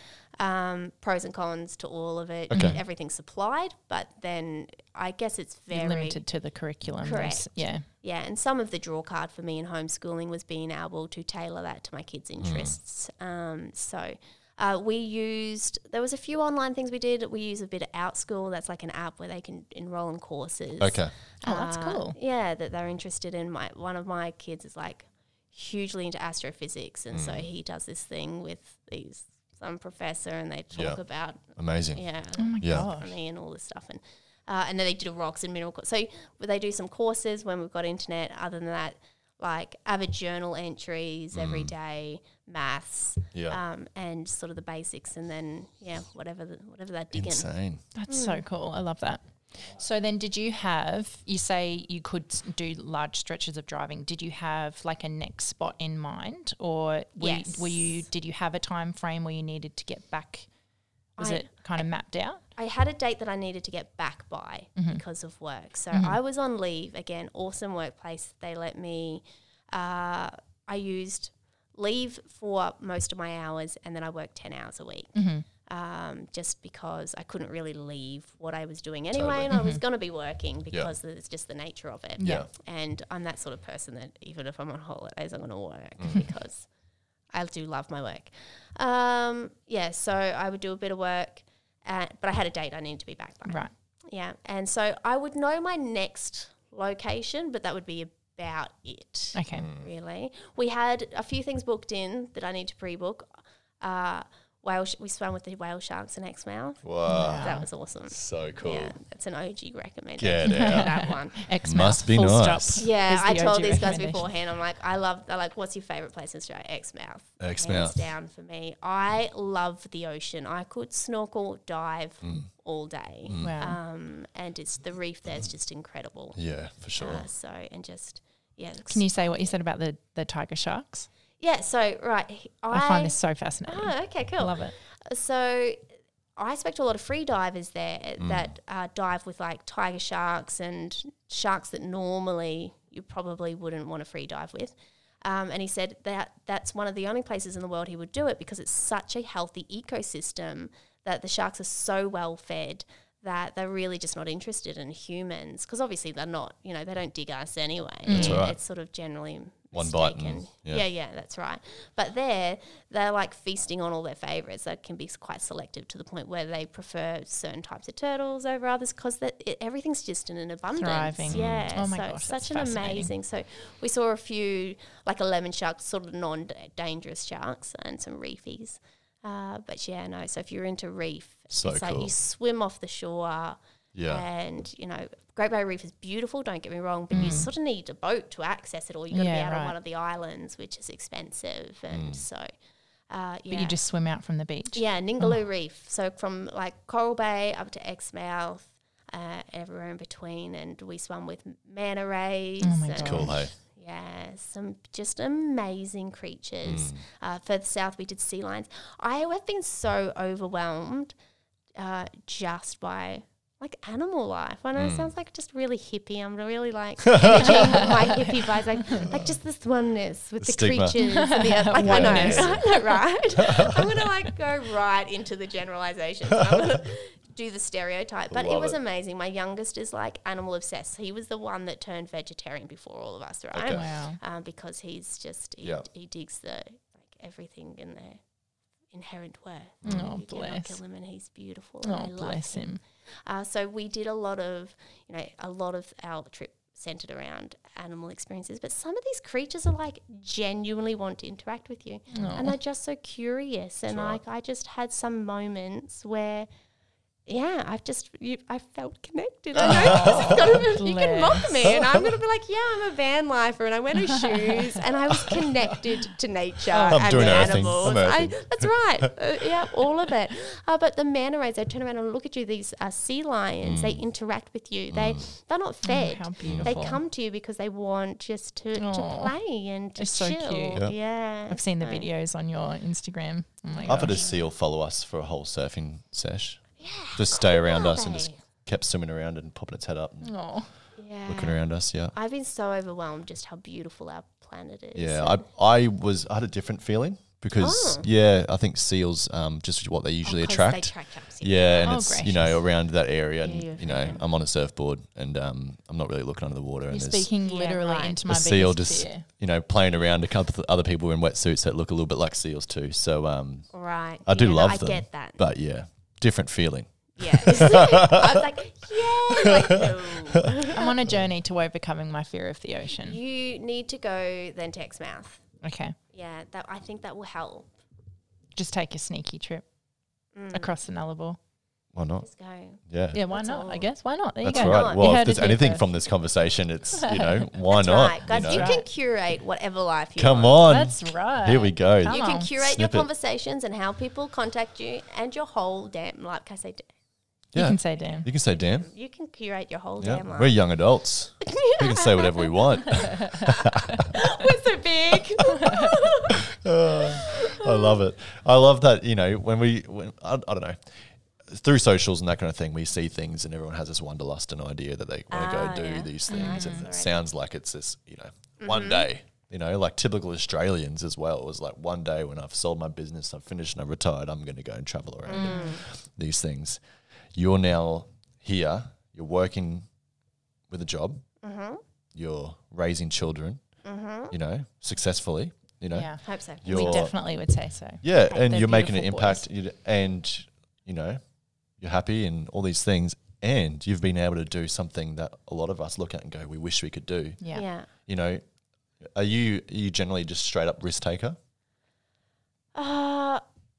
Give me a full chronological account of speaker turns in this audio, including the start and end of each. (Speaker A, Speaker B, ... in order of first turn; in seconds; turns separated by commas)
Speaker A: 0.4-6.2, Speaker B: 2.5-2.8, Speaker C: 2.5-2.8, Speaker C: 5.7-7.8, Speaker A: 7.0-47.5, Speaker B: 12.4-12.8, Speaker B: 20.8-21.1, Speaker C: 21.4-22.2, Speaker B: 27.1-27.5, Speaker B: 30.7-31.0, Speaker B: 31.6-32.0, Speaker C: 32.4-33.1, Speaker B: 32.6-32.9, Speaker B: 41.3-41.7, Speaker B: 43.3-43.6, Speaker B: 47.1-47.8, Speaker C: 48.0-60.5, Speaker A: 48.1-48.4, Speaker A: 57.2-58.0, Speaker A: 61.2-61.5, Speaker C: 61.2-62.4, Speaker A: 62.6-75.2, Speaker C: 64.8-65.0, Speaker C: 65.9-66.2, Speaker C: 75.2-75.5, Speaker A: 75.7-86.7, Speaker B: 79.1-79.5, Speaker C: 79.5-79.8, Speaker C: 82.2-82.5, Speaker B: 82.2-82.5, Speaker B: 86.0-86.3, Speaker A: 87.3-103.3, Speaker C: 99.3-99.7, Speaker B: 99.5-99.9, Speaker A: 103.8-111.5, Speaker B: 106.8-109.0, Speaker C: 107.1-107.7, Speaker B: 110.2-111.0, Speaker C: 110.5-114.2, Speaker B: 111.7-112.8, Speaker A: 112.8-126.4, Speaker B: 117.4-118.1, Speaker B: 122.2-122.5, Speaker B: 123.3-123.6, Speaker C: 123.4-123.8, Speaker B: 126.3-127.3, Speaker A: 127.0-129.4, Speaker C: 128.9-131.1, Speaker A: 131.4-135.8, Speaker C: 132.7-134.7, Speaker A: 136.4-192.5, Speaker B: 138.2-138.5, Speaker C: 158.1-158.5, Speaker B: 158.1-158.6, Speaker B: 159.7-160.8, Speaker C: 170.8-173.1, Speaker B: 171.3-171.8, Speaker B: 181.5-182.1, Speaker B: 183.9-184.2, Speaker B: 187.1-187.5, Speaker C: 187.1-187.5, Speaker C: 189.1-189.8, Speaker B: 191.9-192.2, Speaker A: 193.1-193.8, Speaker C: 193.5-195.4, Speaker A: 194.7-211.2, Speaker C: 202.6-203.4, Speaker B: 203.0-203.5, Speaker B: 206.6-207.0, Speaker A: 211.8-238.2, Speaker B: 214.8-215.1, Speaker B: 217.1-218.0, Speaker C: 217.4-218.3, Speaker B: 219.0-219.3, Speaker B: 220.4-221.0, Speaker C: 221.0-222.7, Speaker B: 221.7-222.7, Speaker B: 223.3-224.1, Speaker B: 226.3-226.6, Speaker B: 228.3-228.8, Speaker B: 233.5-233.8, Speaker C: 233.7-234.2, Speaker A: 238.9-256.5, Speaker B: 239.8-240.1, Speaker C: 239.8-240.8, Speaker C: 241.8-242.8, Speaker C: 252.1-252.5, Speaker B: 253.9-254.2, Speaker A: 257.3-282.1, Speaker B: 259.6-260.7, Speaker C: 259.6-261.5, Speaker B: 261.6-262.2, Speaker B: 265.1-265.7, Speaker C: 266.7-267.7, Speaker B: 266.9-270.1, Speaker B: 273.6-274.0, Speaker B: 274.9-275.3, Speaker C: 275.8-277.0, Speaker B: 276.5-276.8, Speaker C: 278.8-279.3, Speaker C: 280.0-280.9, Speaker C: 281.5-284.2, Speaker A: 283.7-284.4, Speaker B: 283.9-286.6, Speaker A: 286.8-288.4, Speaker B: 287.2-290.3, Speaker C: 290.2-290.7, Speaker A: 291.0-291.6, Speaker B: 291.3-292.1, Speaker A: 292.1-295.4, Speaker B: 294.9-307.3, Speaker A: 297.6-298.1, Speaker A: 300.2-302.0, Speaker C: 301.8-302.6, Speaker A: 303.4-304.2, Speaker C: 306.9-309.3, Speaker A: 307.4-308.2, Speaker B: 308.2-313.7, Speaker A: 313.7-315.4, Speaker B: 314.2-318.5, Speaker A: 317.2-320.9, Speaker B: 319.3-320.7, Speaker C: 320.7-323.2, Speaker A: 323.0-325.4, Speaker C: 325.6-326.0, Speaker A: 326.1-327.7, Speaker C: 328.6-329.6, Speaker A: 330.4-330.7, Speaker C: 330.5-331.4, Speaker B: 331.9-332.3, Speaker A: 332.2-333.9, Speaker B: 332.9-333.2, Speaker C: 333.1-335.9, Speaker B: 334.4-338.8, Speaker A: 334.5-335.2, Speaker C: 336.9-337.5, Speaker A: 337.7-340.6, Speaker C: 338.3-338.9, Speaker B: 340.2-343.1, Speaker C: 340.6-342.5, Speaker A: 342.1-346.9, Speaker B: 347.5-348.9, Speaker C: 347.6-348.3, Speaker A: 348.1-350.6, Speaker B: 350.0-354.2, Speaker A: 351.4-358.0, Speaker B: 355.4-376.8, Speaker A: 365.3-367.2, Speaker C: 366.3-366.9, Speaker A: 368.6-369.1, Speaker A: 375.3-375.9, Speaker C: 375.3-375.8, Speaker B: 377.3-379.9, Speaker B: 380.7-381.2, Speaker A: 381.4-381.8, Speaker B: 382.1-383.6, Speaker A: 383.8-384.4, Speaker B: 384.3-387.1, Speaker C: 385.9-389.4, Speaker A: 386.2-387.1, Speaker B: 388.0-391.2, Speaker B: 391.8-397.4, Speaker C: 397.4-397.7, Speaker A: 397.5-397.9, Speaker B: 398.1-398.4, Speaker B: 399.0-401.4, Speaker A: 402.8-403.4